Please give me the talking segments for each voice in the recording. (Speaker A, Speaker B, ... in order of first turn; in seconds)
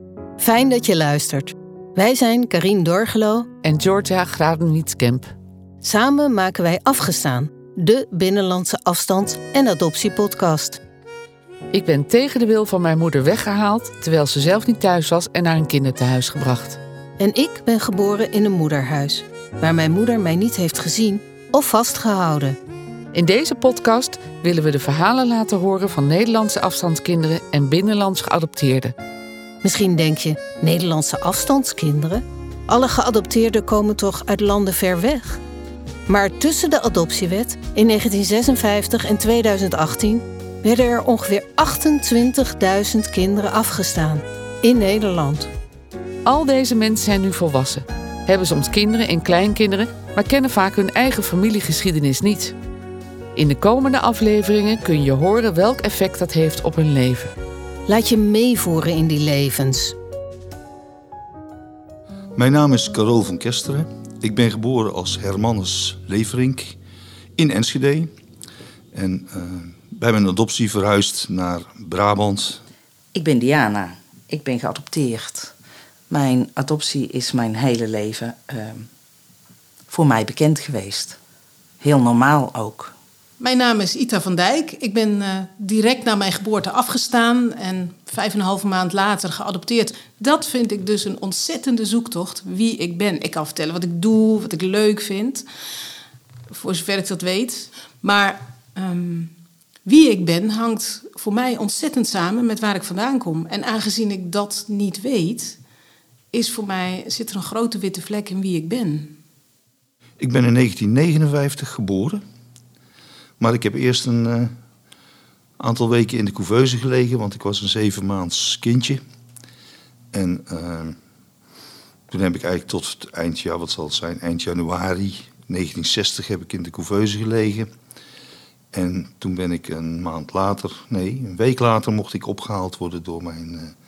Speaker A: 0.4-3.5, 5.8-10.8, 17.2-22.6, 29.6-35.4, 36.1-45.5, 57.9-60.0
Speaker B: 3.6-5.3, 11.7-16.8, 23.1-28.9, 46.2-52.5, 53.3-57.3
Speaker C: 62.4-66.8, 67.4-68.1, 68.9-72.6, 110.2-112.2, 113.4-114.5, 115.6-119.0, 120.1-121.0, 122.1-127.7, 128.7-133.7
Speaker D: 73.1-75.5, 76.1-78.9, 79.9-81.2, 81.8-82.9
Speaker E: 83.4-95.5, 96.5-99.3, 99.8-105.6, 106.3-109.2